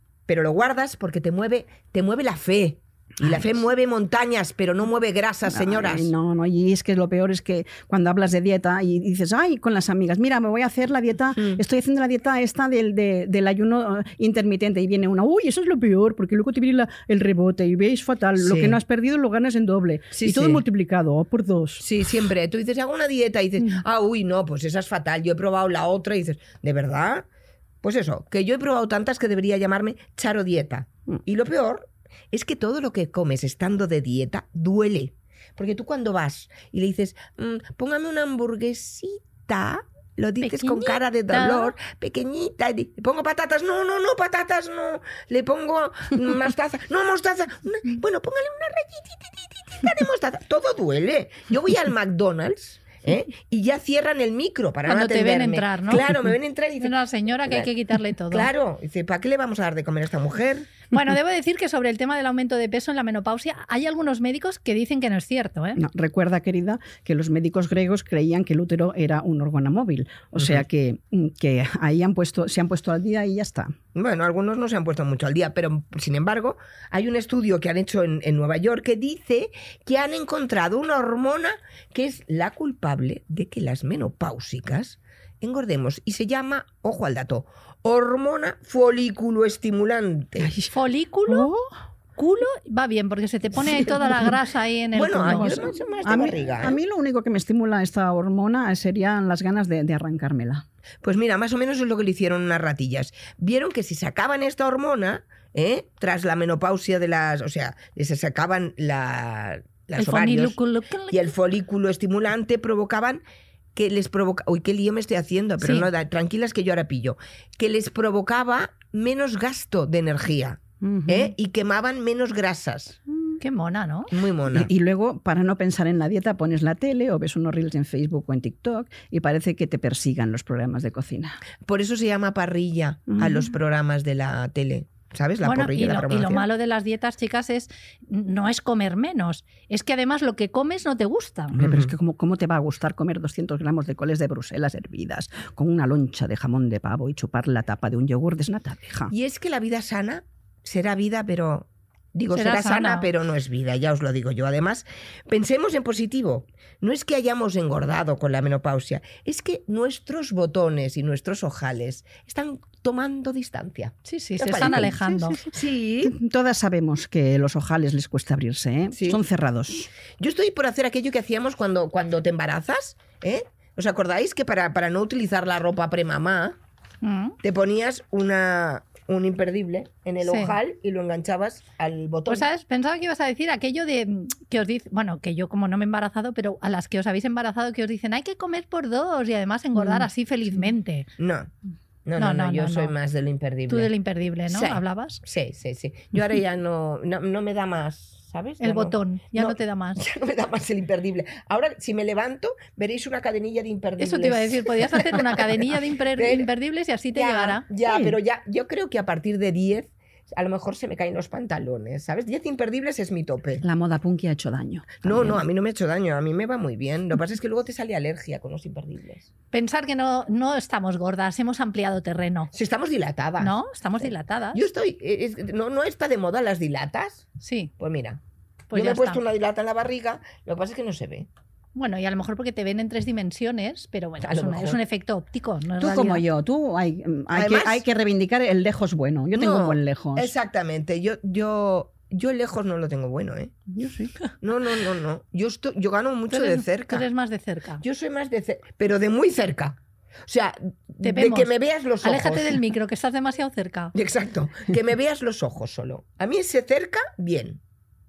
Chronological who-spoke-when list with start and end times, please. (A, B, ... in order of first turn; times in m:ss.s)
0:00.3-0:06.1 A
0:05.5-0:21.8 B
0:18.4-0:18.8 A
0:20.1-0:20.6 A
0:21.8-0:27.3 A
0:27.8-0:57.7 A
0:40.4-0:41.7 C
0:54.9-0:56.1 C
0:56.8-0:58.5 C
0:58.3-1:00.7 A
1:00.9-1:05.8 C
1:05.8-1:13.8 B
1:10.4-1:10.6 A
1:14.0-1:30.5 A
1:30.4-1:30.7 B
1:30.7-1:31.5 C
1:31.3-1:31.7 B
1:32.2-1:35.7 C
1:34.9-1:36.8 A
1:35.3-1:40.7 B
1:41.0-1:50.6 A
1:50.0-1:51.3 C
1:51.1-1:53.2 A
1:53.8-2:03.0 A
1:55.6-1:55.9 C
2:00.8-2:01.3 B
2:03.4-2:04.1 C
2:04.1-2:04.7 A
2:04.5-2:11.4 B
2:11.6-2:16.5 A
2:13.1-2:13.5 B
2:15.4-2:21.6 C
2:21.5-2:29.1 B
2:21.6-2:21.9 A
2:29.1-2:46.2 A
2:32.3-2:33.1 C
2:44.1-2:45.4 C
2:44.7-2:49.9 B
2:48.9-2:49.2 A
2:50.2-2:56.6 A
2:57.0-2:57.4 C
2:57.4-3:02.5 A
3:00.2-3:00.6 C
3:02.3-3:11.1 C
3:09.8-3:10.1 B
3:11.2-3:11.5 A
3:12.1-3:13.9 A
3:12.2-3:12.9 C
3:13.7-3:15.2 C
3:14.5-3:26.5 A
3:18.6-3:20.0 C
3:24.0-3:27.7 C
3:27.2-3:33.7 A
3:27.8-3:28.2 B
3:33.6-3:35.4 B
3:35.0-3:39.3 A
3:39.5-3:42.5 C
3:42.5-3:43.6 A
3:43.4-3:44.6 C
3:44.5-3:47.3 A
3:47.4-3:47.7 C
3:47.8-3:48.2 A
3:48.7-3:49.2 C
3:48.7-3:51.3 A
3:51.8-3:56.2 C
3:54.2-3:54.8 A
3:55.8-4:00.3 B
3:57.3-3:57.8 A
3:59.4-4:03.6 A
4:03.7-4:04.1 B
4:04.4-4:07.1 A
4:06.3-4:07.8 C
4:07.8-4:12.6 A
4:11.0-4:13.9 C
4:14.0-4:17.6 A